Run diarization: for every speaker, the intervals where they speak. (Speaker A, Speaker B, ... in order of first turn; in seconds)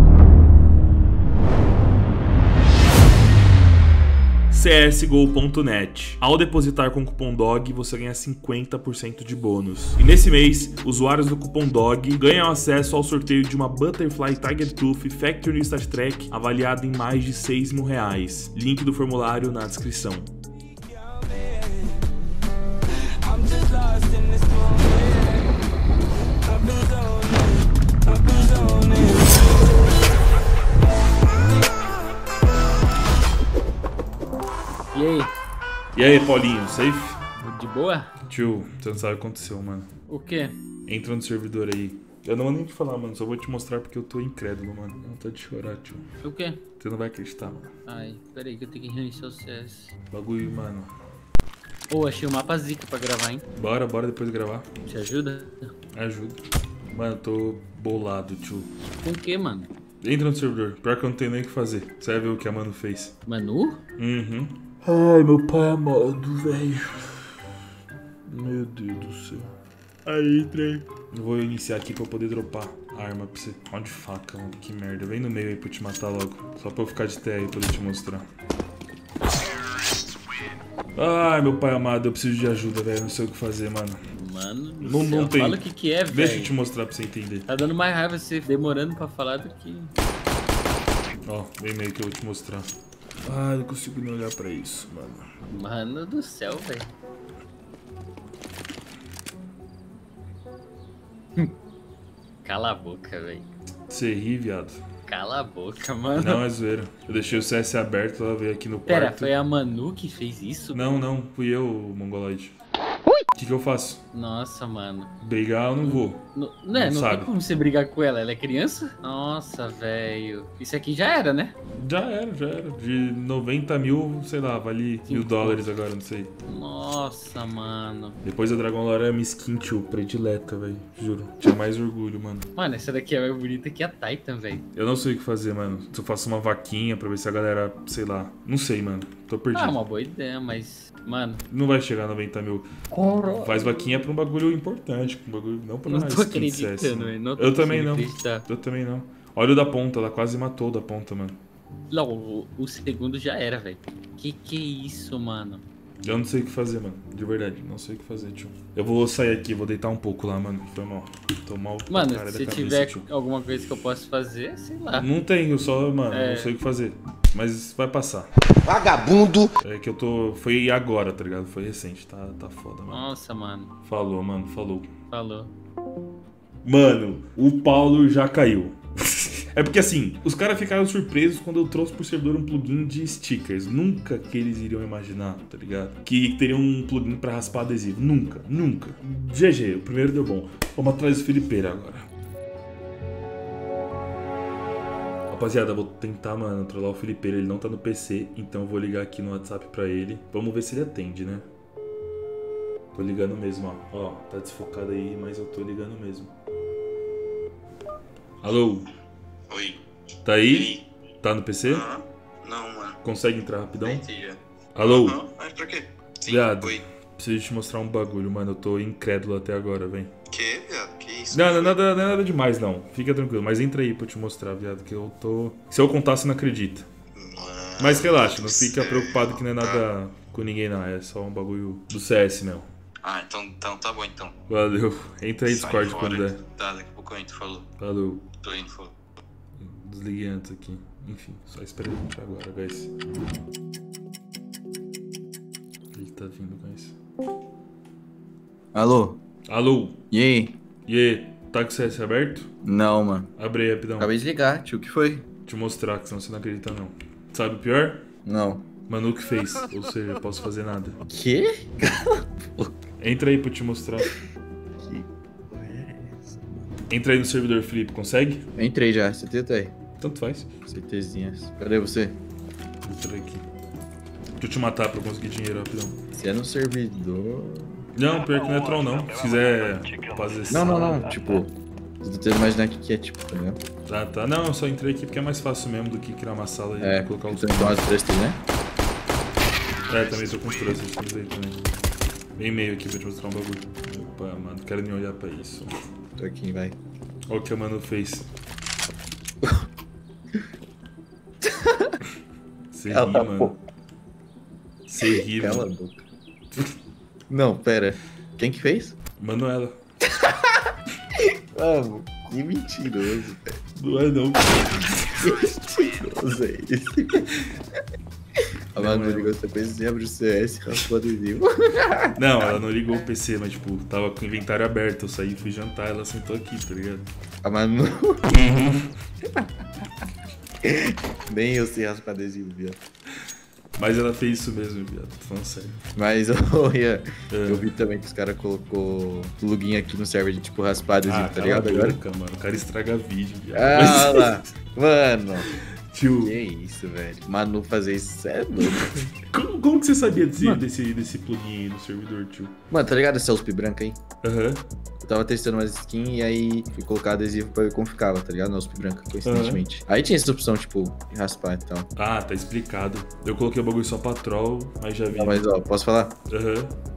Speaker A: 4.5-20.3, 35.9-37.2, 38.3-39.9, 40.9-46.0, 46.8-47.7, 50.1-50.9, 53.5-54.7, 55.9-56.4, 56.9-58.7, 60.0-63.1, 64.0-67.4, 68.3-69.5, 70.0-78.3, 81.0-84.0, 84.8-87.5, 91.2-92.7, 93.2-95.2, 103.9-104.8, 106.2-109.3, 110.7-112.5, 113.3-114.0, 115.2-116.2, 116.7-117.3, 121.8-126.3, 128.2-132.5, 134.7-139.8, 141.5-142.7, 143.2-151.4, 156.0-163.1, 165.0-168.3, 169.6-173.0, 173.8-174.9, 176.6-192.1, 195.3-201.4, 202.9-206.3, 208.4-208.8, 210.2-211.8, 213.0-214.1, 214.7-215.2, 216.2-220.1, 221.3-226.9, 227.8-232.7, 234.5-236.4, 237.8-238.2, 239.6-242.9, 245.9-246.9, 249.5-250.1, 250.8-252.5, 253.3-254.2, 255.4-258.0, 258.9-261.0, 263.0-264.1, 266.9-268.4, 270.0-270.5, 272.8-273.4, 274.4-275.9, 277.9-281.1, 283.9-287.9, 289.9-291.6, 292.4-295.7, 297.3-298.3, 302.7-303.6, 304.9-305.7, 309.2-309.8, 313.8-315.4, 318.7-319.3, 322.1-327.1, 333.8-335.8, 337.3-337.7, 341.1-344.4, 345.4-346.4, 348.6-352.6, 354.2-354.6, 359.2-359.6, 361.9-365.5, 366.3-366.7
Speaker B: 23.2-25.5, 26.5-27.5, 28.1-29.3, 34.9-35.3, 37.4-38.1, 40.1-40.6, 46.2-46.6, 47.9-49.9, 51.9-53.4, 54.9-55.7, 59.0-59.7, 63.2-63.8, 84.1-86.5, 87.5-89.9, 95.5-96.9, 102.4-103.5, 105.1-106.4, 108.9-110.8, 114.1-115.1, 115.8-121.5, 125.0-125.7, 126.4-128.2, 132.5-134.6, 139.5-141.4, 145.8-148.4, 151.9-155.6, 161.9-165.1, 166.1-166.5, 172.9-173.7, 175.1-175.5
Speaker C: 168.7-169.5, 211.8-212.9, 215.0-216.7, 220.3-221.7, 227.2-229.0, 233.1-234.1, 236.6-237.6, 238.4-238.9, 248.7-249.2, 250.1-250.6, 252.6-253.3, 254.0-255.3, 258.2-258.7, 261.1-262.7, 264.8-266.4, 268.6-269.7, 270.6-272.2, 276.1-277.8, 280.5-283.6, 286.8-288.4, 296.2-296.8, 301.5-301.9, 302.9-303.5, 305.3-306.0, 307.3-309.0, 311.5-313.6, 315.2-317.3, 318.8-322.1, 327.4-328.7, 330.6-332.8, 335.9-342.0, 343.5-345.5, 346.2-349.0, 352.7-354.0, 355.0-361.9, 365.1-366.1
Speaker D: 213.8-214.3, 235.5-236.2, 236.8-237.6